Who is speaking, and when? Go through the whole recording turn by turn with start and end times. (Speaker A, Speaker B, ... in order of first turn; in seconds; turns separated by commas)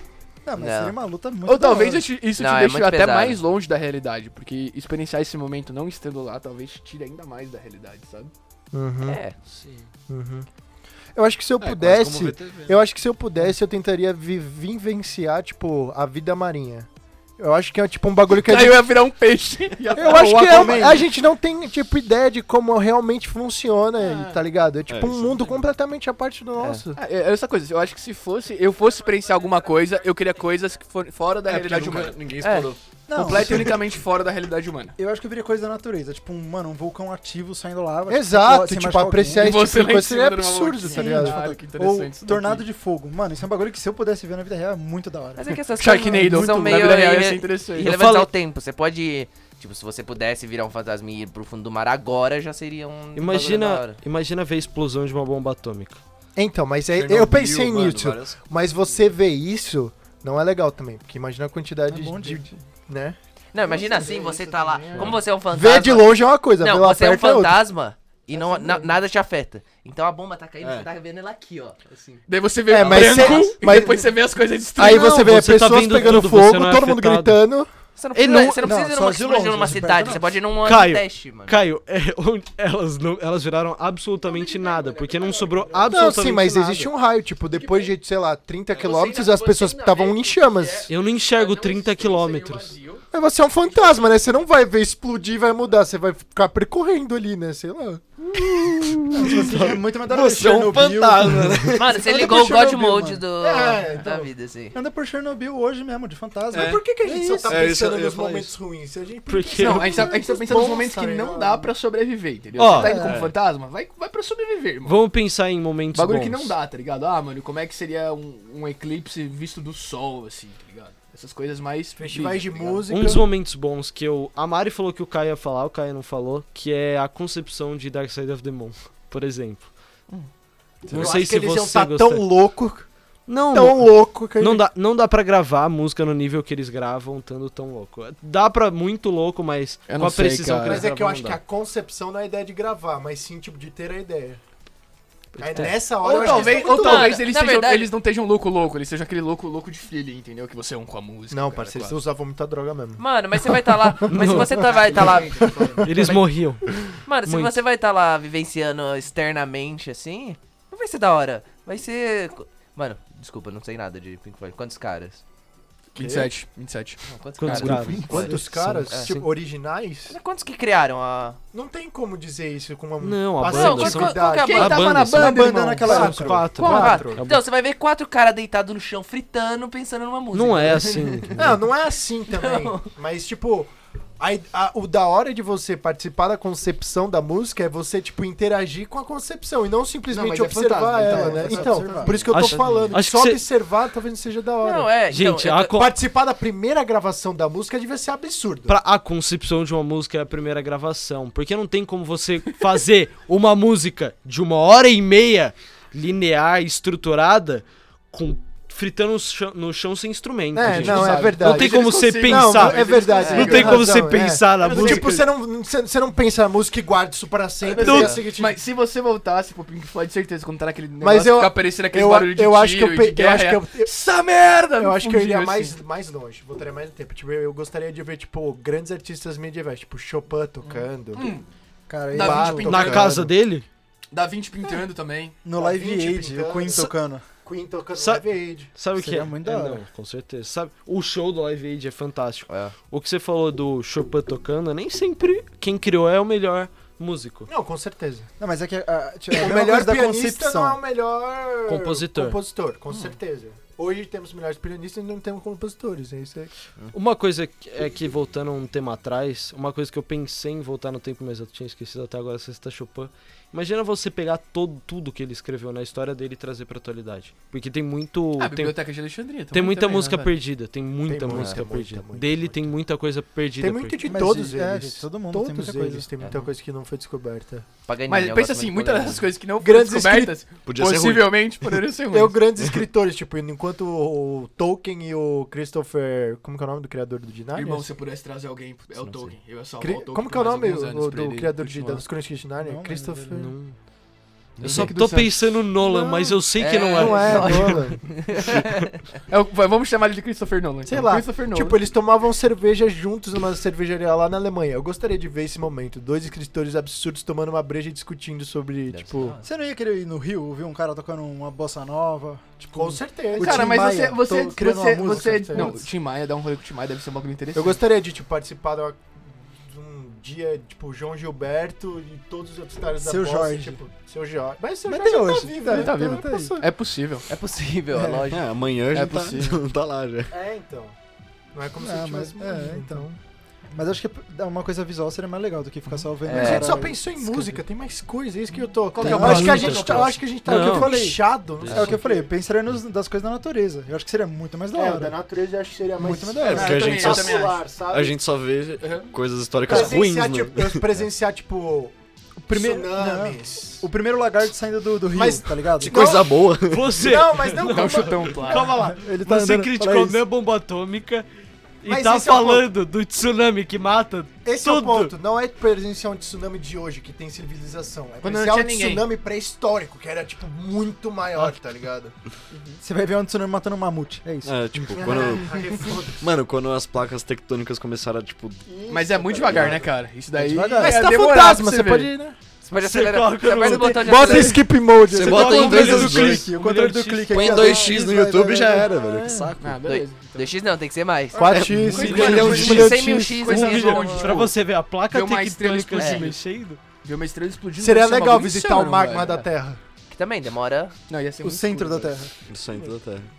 Speaker A: 0.4-2.1, Speaker B: 0.6-0.9, Speaker C: 1.4-8.3, Speaker B: 2.4-3.4, Speaker D: 8.7-9.2, Speaker B: 9.0-9.3, Speaker E: 9.5-9.9, Speaker D: 10.1-10.5, Speaker D: 11.1-18.9, Speaker F: 11.6-12.8, Speaker C: 18.3-21.0, Speaker A: 19.9-21.0, Speaker D: 19.9-27.0, Speaker C: 24.0-24.4, Speaker F: 24.9-25.5, Speaker B: 26.6-26.8, Speaker C: 26.9-35.0, Speaker F: 31.5-33.8, Speaker B: 32.4-32.7, Speaker A: 33.1-33.8, Speaker A: 35.0-39.6, Speaker D: 38.1-41.4, Speaker C: 39.3-42.6, Speaker A: 40.9-46.5, Speaker B: 45.4-54.0, Speaker C: 45.7-48.0, Speaker E: 47.8-48.3, Speaker E: 53.1-56.0, Speaker D: 56.4-67.6, Speaker F: 56.9-58.4, Speaker A: 61.9-62.5, Speaker B: 63.5-72.2, Speaker F: 64.9-65.2, Speaker D: 68.3-68.8, Speaker F: 70.6-70.9, Speaker C: 72.3-75.3, Speaker D: 72.7-74.0, Speaker B: 72.8-73.7, Speaker D: 74.8-77.7, Speaker E: 74.8-77.4, Speaker B: 78.0-81.5, Speaker E: 78.1-78.7, Speaker A: 78.6-80.4, Speaker E: 80.6-86.9, Speaker C: 84.2-86.0, Speaker D: 85.9-90.9, Speaker C: 87.5-87.9, Speaker C: 88.7-93.0, Speaker B: 88.8-89.3, Speaker E: 90.9-92.7, Speaker D: 93.1-99.6, Speaker A: 99.1-103.2, Speaker F: 99.1-102.2, Speaker B: 101.7-104.7, Speaker D: 103.4-104.3, Speaker A: 104.7-107.7, Speaker F: 106.5-106.9, Speaker D: 106.5-111.7, Speaker F: 107.5-108.5, Speaker E: 109.3-110.1, Speaker C: 109.6-115.0, Speaker E: 112.5-113.0, Speaker A: 112.7-113.2, Speaker F: 113.0-113.3, Speaker E: 114.8-116.5, Speaker C: 115.9-122.8, Speaker D: 122.0-123.2, Speaker E: 122.9-129.7, Speaker D: 130.8-132.9, Speaker E: 130.9-132.2, Speaker E: 133.3-141.4, Speaker D: 133.5-134.7, Speaker C: 139.9-140.8, Speaker D: 140.6-144.4, Speaker D: 145.4-147.2, Speaker C: 145.4-152.0, Speaker B: 146.0-147.9, Speaker D: 151.3-155.8, Speaker B: 153.0-156.3, Speaker E: 154.1-154.6, Speaker C: 154.6-155.8, Speaker E: 155.8-156.7, Speaker B: 157.0-165.2, Speaker E: 157.2-157.6, Speaker C: 165.9-168.0, Speaker B: 167.1-168.3, Speaker E: 167.4-169.2, Speaker D: 167.7-170.2, Speaker A: 167.8-168.5, Speaker B: 168.9-169.1, Speaker B: 170.1-171.4, Speaker D: 171.5-174.8, Speaker E: 173.0-177.4, Speaker B: 173.4-174.9, Speaker C: 174.2-176.8, Speaker A: 175.0-176.9, Speaker D: 175.8-177.2, Speaker B: 176.6-181.3, Speaker E: 180.3-181.6, Speaker D: 181.3-194.9, Speaker B: 182.3-182.9, Speaker C: 190.1-192.8, Speaker A: 190.9-192.3, Speaker E: 192.2-193.4, Speaker B: 194.6-195.8, Speaker E: 195.1-195.9, Speaker D: 195.7-198.7, Speaker E: 198.7-215.2, Speaker D: 210.5-218.6, Speaker C: 210.6-213.9, Speaker B: 213.2-213.6, Speaker A: 214.6-215.0, Speaker C: 214.7-215.0, Speaker C: 217.6-225.8, Speaker E: 217.8-218.2, Speaker D: 221.0-223.9, Speaker D: 224.8-231.3, Speaker C: 230.6-231.4, Speaker A: 231.9-232.9, Speaker C: 232.1-233.2, Speaker D: 232.1-233.3, Speaker E: 232.6-233.7, Speaker C: 234.1-235.4, Speaker A: 235.4-237.2, Speaker D: 235.6-238.7, Speaker E: 237.9-247.5, Speaker A: 238.9-239.8, Speaker B: 242.5-242.7, Speaker D: 247.5-248.3, Speaker A: 248.4-250.8, Speaker D: 249.3-256.5, Speaker E: 251.7-252.4, Speaker E: 256.9-268.8, Speaker C: 268.4-270.3, Speaker E: 269.5-274.0, Speaker D: 271.1-272.8, Speaker B: 271.3-271.6, Speaker D: 273.6-277.7, Speaker A: 274.0-276.1, Speaker B: 276.2-276.5, Speaker B: 277.9-279.3, Speaker C: 278.1-282.4, Speaker D: 279.6-280.4, Speaker F: 280.6-281.4, Speaker D: 282.1-287.9, Speaker C: 287.5-292.0, Speaker D: 289.8-293.5, Speaker A: 292.6-293.4, Speaker E: 293.3-293.8, Speaker E: 294.6-298.0, Speaker D: 294.6-298.1, Speaker C: 294.6-295.2, Speaker B: 296.6-299.0, Speaker C: 299.3-301.8, Speaker D: 300.9-309.4, Speaker B: 308.9-309.4, Speaker A: 309.4-315.8, Speaker D: 312.7-315.8, Speaker C: 313.4-317.8, Speaker D: 317.5-326.6, Speaker A: 323.0-323.8, Speaker A: 324.9-326.6, Speaker C: 325.6-327.2, Speaker B: 327.3-328.5, Speaker A: 327.9-328.3, Speaker F: 328.3-330.3, Speaker C: 328.9-329.6, Speaker D: 330.3-330.9, Speaker D: 331.5-333.2, Speaker A: 331.8-333.0, Speaker A: 333.7-337.5, Speaker D: 336.2-342.3, Speaker B: 336.3-336.8, Speaker C: 338.9-340.2, Speaker E: 339.0-341.0, Speaker A: 339.0-345.1, Speaker D: 344.7-348.2, Speaker A: 346.0-347.2, Speaker F: 346.4-350.9, Speaker C: 346.6-347.6, Speaker C: 348.8-349.1, Speaker D: 349.6-351.9, Speaker D: 352.4-353.9, Speaker A: 352.5-356.0, Speaker D: 355.1-356.3, Speaker F: 355.8-357.0, Speaker E: 356.7-361.3, Speaker D: 356.9-358.7, Speaker C: 357.6-358.8, Speaker A: 358.5-360.2, Speaker E: 361.8-365.1, Speaker D: 361.8-362.7, Speaker D: 364.4-372.1, Speaker C: 368.2-369.1, Speaker C: 372.5-372.8, Speaker A: 372.8-374.6, Speaker F: 374.4-378.7, Speaker D: 374.9-376.2, Speaker D: 378.6-379.9, Speaker C: 378.9-382.1, Speaker F: 379.5-379.8, Speaker A: 380.3-381.1, Speaker D: 380.8-382.4, Speaker B: 382.6-384.7, Speaker E: 382.8-384.5, Speaker A: 383.6-384.5, Speaker D: 383.8-385.9, Speaker F: 385.1-386.5, Speaker E: 385.2-387.7, Speaker A: 385.2-389.5, Speaker F: 387.3-389.7, Speaker D: 387.5-387.9, Speaker D: 388.8-389.5, Speaker C: 389.6-390.5, Speaker B: 389.8-391.6, Speaker D: 391.3-393.4, Speaker F: 391.4-393.0, Speaker E: 391.8-396.8, Speaker C: 391.9-394.5, Speaker A: 392.0-392.7, Speaker B: 392.3-394.5, Speaker C: 395.1-396.4, Speaker B: 396.0-396.3, Speaker C: 397.0-399.3, Speaker D: 397.8-399.8, Speaker B: 400.1-400.9, Speaker C: 401.1-402.1, Speaker A: 401.4-402.3, Speaker F: 402.5-403.3